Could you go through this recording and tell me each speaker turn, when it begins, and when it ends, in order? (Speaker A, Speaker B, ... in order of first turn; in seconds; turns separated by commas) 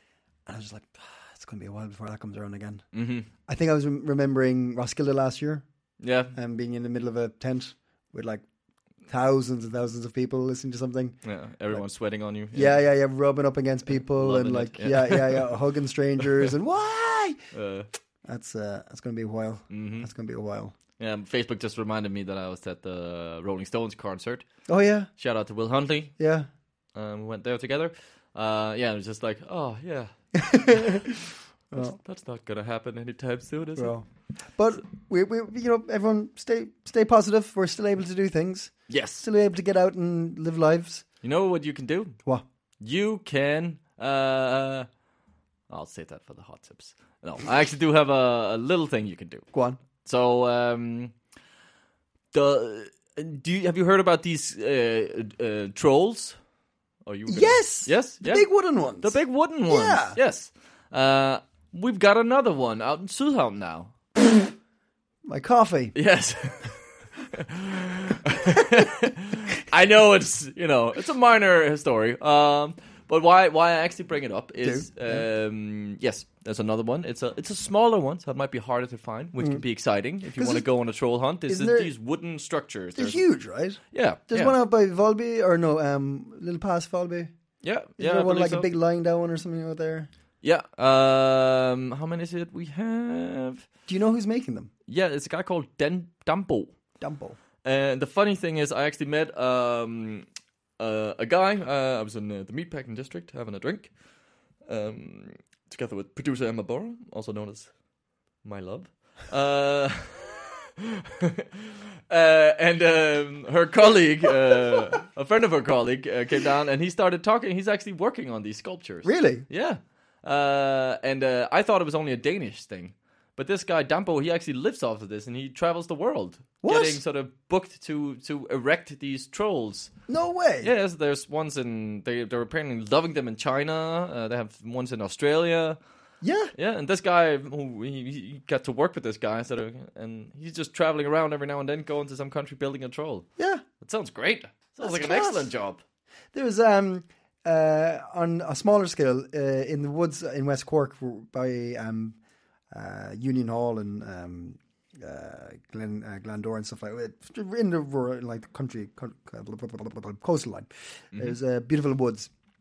Speaker A: 0.5-2.9, Speaker B: 2.9-3.3, Speaker A: 3.5-5.6, Speaker B: 6.0-6.3, Speaker A: 6.3-8.4, Speaker A: 9.1-11.2, Speaker B: 11.2-12.8, Speaker A: 12.5-17.4, Speaker B: 14.1-15.5, Speaker B: 17.5-17.9, Speaker A: 18.2-20.7, Speaker B: 19.7-20.1, Speaker B: 21.0-24.4, Speaker A: 24.7-25.1, Speaker B: 25.2-26.1, Speaker A: 26.2-26.5, Speaker B: 26.9-30.9, Speaker A: 30.4-31.1, Speaker A: 31.7-32.0, Speaker B: 31.8-33.9, Speaker A: 33.8-41.0, Speaker B: 38.9-39.2, Speaker B: 41.2-42.2, Speaker B: 42.8-44.9, Speaker B: 45.7-49.5, Speaker A: 49.5-49.8, Speaker B: 50.0-51.1, Speaker B: 52.3-56.4, Speaker B: 57.0-58.5, Speaker A: 57.3-59.2, Speaker B: 59.0-63.9, Speaker A: 59.7-60.2, Speaker A: 65.2-66.0, Speaker B: 65.9-66.8, Speaker B: 67.3-83.2, Speaker A: 74.6-75.2, Speaker A: 79.4-79.6, Speaker A: 80.2-80.7, Speaker A: 81.5-81.9, Speaker A: 83.0-87.3, Speaker B: 83.9-84.5, Speaker B: 87.6-88.7, Speaker A: 88.0-90.1, Speaker B: 90.4-93.6, Speaker A: 93.9-94.7, Speaker B: 94.9-96.7, Speaker A: 97.0-97.4, Speaker B: 97.6-100.2, Speaker B: 100.8-103.9, Speaker B: 104.6-107.8, Speaker B: 108.4-110.4, Speaker B: 112.1-129.9, Speaker A: 119.0-119.5, Speaker A: 126.6-127.0, Speaker A: 130.1-130.7, Speaker B: 130.6-135.8, Speaker A: 136.2-136.5, Speaker B: 136.5-143.3, Speaker A: 143.4-143.6, Speaker B: 143.8-145.8, Speaker A: 144.8-145.5, Speaker A: 146.3-152.2, Speaker A: 152.7-162.3